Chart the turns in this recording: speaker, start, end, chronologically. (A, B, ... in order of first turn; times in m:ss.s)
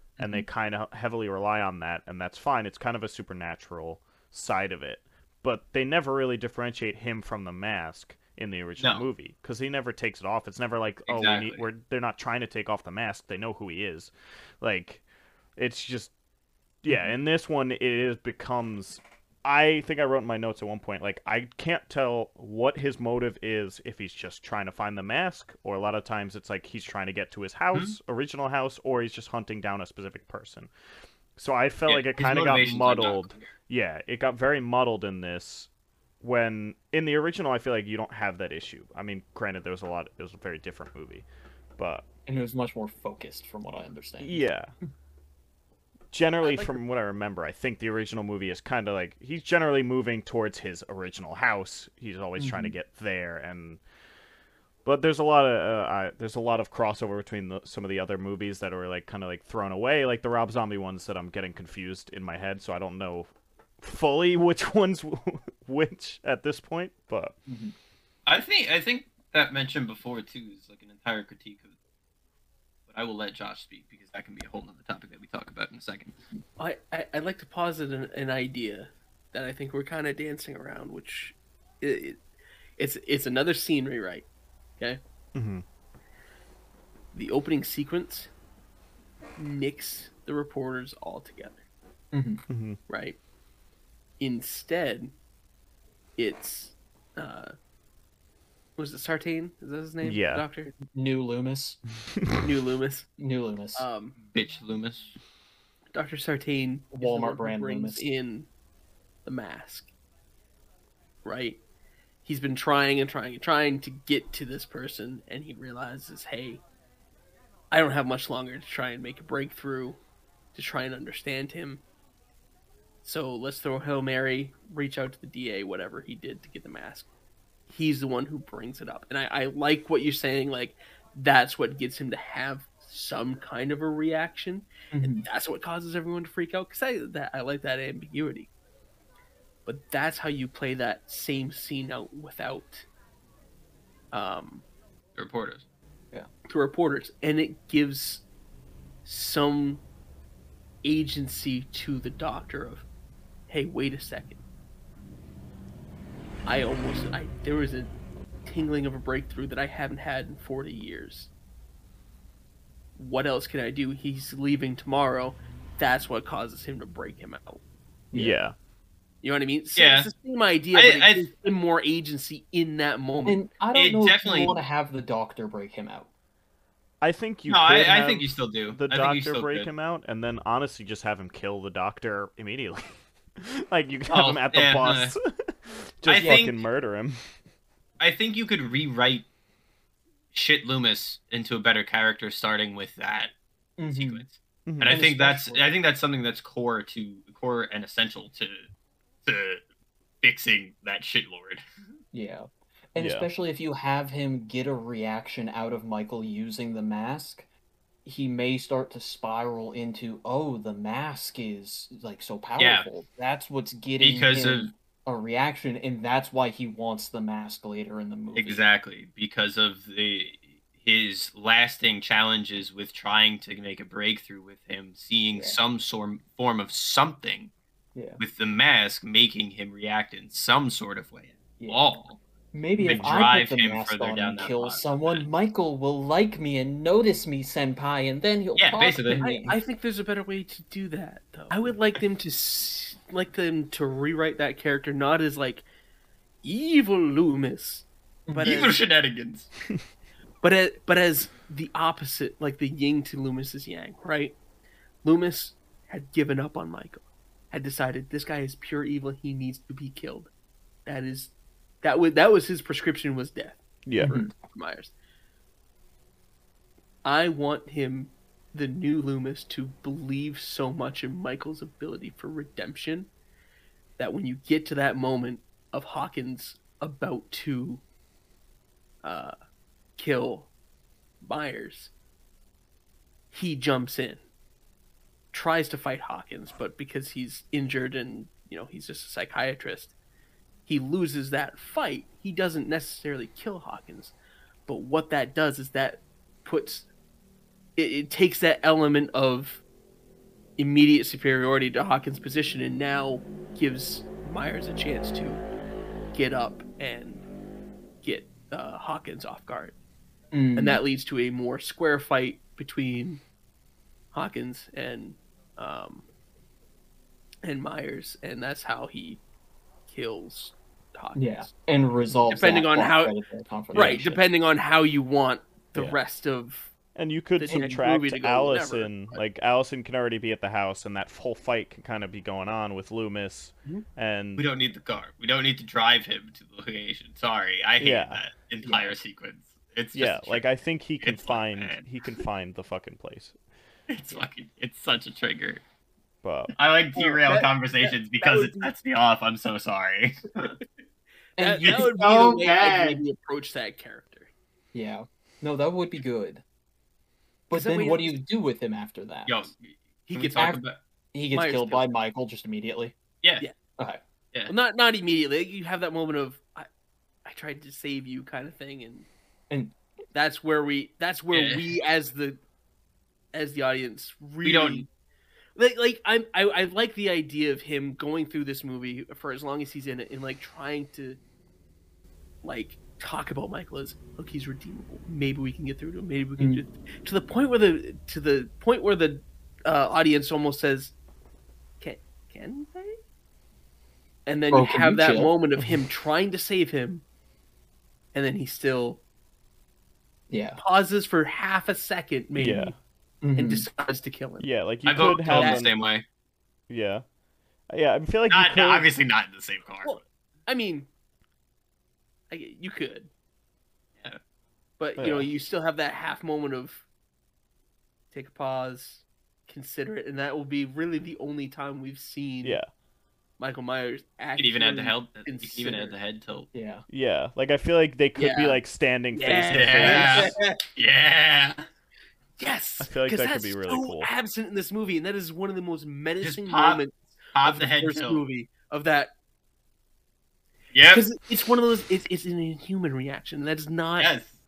0:00.2-0:00.4 A
0:00.2-0:15.0 B
0:08.8-0:09.0 C
0:11.1-0:11.6 C
0:15.6-0:16.1 B
0:16.8-0:30.7 B
0:16.9-0:17.1 A
0:31.3-0:35.7 B
0:31.9-0:33.5 C
0:36.2-0:41.2 B
0:41.8-0:42.0 B
0:42.2-0:44.9 A
0:44.2-0:44.7 B
0:46.1-0:53.8 B
0:52.4-0:52.7 A
0:54.8-1:07.4 B
1:07.5-1:07.7 A
1:08.2-1:11.7 C
1:12.9-1:16.1 C
1:16.6-1:22.2 D
1:22.8-1:24.2 D
1:25.3-1:25.6 B
1:27.1-1:28.3 D
1:29.4-1:31.6 D
1:32.1-1:32.4 A
1:32.5-1:32.8 B
1:32.9-1:33.2 D
1:34.2-1:35.1 D
1:36.2-1:37.5 D
1:38.8-1:40.7 D
1:40.0-1:40.4 B
1:40.7-1:41.8 A
1:42.4-1:43.1 D
1:43.2-1:43.9 A
1:43.8-1:44.2 D
1:44.2-1:45.1 C
1:45.9-1:48.5 D
1:46.9-1:48.0 A
1:49.2-1:49.9 D
1:51.2-1:51.6 D
1:52.2-1:56.6 D
1:57.7-2:00.0 D
2:00.5-2:01.8 D
2:03.0-2:07.1 D
2:07.7-2:18.5 D
2:14.9-2:15.2 A
2:19.6-2:22.8 D
2:24.1-2:24.6 D
2:25.1-2:25.6 C
2:26.5-2:28.2 D
2:29.0-2:29.8 D
2:30.8-2:32.8 D
2:33.5-2:34.4 D
2:36.4-2:37.9 D
2:38.4-2:41.3 D
2:43.0-2:47.6 D
2:48.1-2:48.4 A
2:48.1-2:48.5 B
2:49.2-2:53.4 D
2:49.8-2:50.1 C
2:50.7-2:51.2 C
2:53.2-2:56.1 A
2:53.7-2:54.6 C
2:57.0-3:07.3 B
2:57.5-2:59.7 C
3:04.1-3:05.1 C
3:06.0-3:06.6 C
3:06.1-3:06.4 A
3:08.0-3:09.3 C
3:10.3-3:13.3 C
3:13.8-3:14.2 A
3:13.9-3:18.7 C
3:14.6-3:15.0 B
3:14.8-3:15.6 A
3:19.2-3:19.6 C
3:20.2-3:21.6 C
3:22.1-3:27.4 A
3:23.0-3:23.3 B
3:28.0-3:38.6 A
3:32.6-3:32.8 C
3:34.0-3:34.7 C
3:38.4-3:47.5 C
3:47.9-3:48.2 A
3:48.2-3:52.2 C
3:51.6-3:51.9 A
3:52.5-3:59.6 A
3:52.8-3:53.2 B
3:52.8-3:55.2 C
3:58.6-3:59.3 C
3:59.2-4:05.6 D
4:06.4-4:08.8 D
4:08.4-4:09.5 C
4:10.4-4:14.4 D
4:15.0-4:20.3 D
4:20.8-4:24.9 D
4:23.8-4:24.1 B
4:24.0-4:24.3 A
4:27.0-4:33.1 D
4:34.0-4:37.8 D
4:39.0-4:39.3 D
4:40.0-4:40.5 D
4:41.2-4:41.9 D
4:43.3-4:44.2 D
4:45.3-4:49.9 D
4:50.7-4:54.1 D
4:54.7-4:56.9 D
4:57.8-4:59.6 D
5:00.6-5:05.4 D
5:06.1-5:07.2 D
5:08.0-5:09.8 D
5:10.3-5:10.8 A
5:10.6-5:13.2 D
5:14.1-5:16.0 D
5:17.4-5:19.2 D
5:19.8-5:21.5 D
5:21.2-5:24.2 A
5:22.3-5:23.2 D
5:23.7-5:24.0 B
5:23.7-5:26.7 D
5:26.9-5:34.5 B
5:27.4-5:29.2 D
5:27.5-5:27.8 A
5:34.4-5:40.4 C
5:37.8-5:38.2 B
5:38.6-5:39.0 A
5:39.9-5:43.4 B
5:41.0-5:41.8 C
5:43.9-5:45.6 C
5:46.2-5:46.5 B
5:46.5-5:50.6 C
5:46.9-5:48.7 D
5:51.4-5:51.8 A
5:51.4-5:54.3 D
5:51.6-5:53.0 C
5:54.7-5:56.4 A
5:57.5-5:59.4 A
5:57.5-5:58.2 D
5:59.3-6:00.8 C
6:00.1-6:00.6 D
6:00.4-6:02.9 A
6:01.3-6:01.9 D
6:03.2-6:03.5 C
6:04.5-6:06.7 D
6:07.2-6:09.1 D
6:09.5-6:09.8 A
6:10.1-6:12.4 D
6:11.3-6:11.7 C
6:13.3-6:14.8 D
6:14.4-6:14.8 C
6:15.6-6:21.2 D
6:22.4-6:30.9 D
6:26.4-6:26.6 A
6:31.8-6:33.0 D
6:34.2-6:37.0 D
6:34.5-6:35.3 A
6:38.1-6:39.0 D
6:40.3-6:40.6 A
6:40.6-6:42.7 D
6:42.4-6:43.6 A
6:42.4-6:42.7 B
6:43.4-6:44.5 D
6:44.4-6:45.8 B
6:44.8-6:46.0 C
6:45.3-6:45.6 D
6:46.7-6:47.0 B
6:47.7-6:48.9 B
6:48.3-6:50.0 C
6:49.8-6:50.9 D
6:52.3-6:53.1 D
6:54.8-6:56.8 D
6:55.0-6:55.3 B
6:58.1-7:02.6 D
7:02.4-7:02.7 B
7:03.4-7:06.0 D
7:04.4-7:06.5 C
7:06.5-7:06.8 A
7:06.9-7:10.3 B
7:08.2-7:08.6 D
7:09.1-7:10.5 D
7:09.5-7:11.6 C
7:12.4-7:19.1 D
7:12.8-7:14.1 B
7:16.2-7:18.2 C
7:20.7-7:21.0 C
7:20.9-7:24.1 D
7:24.0-7:24.3 C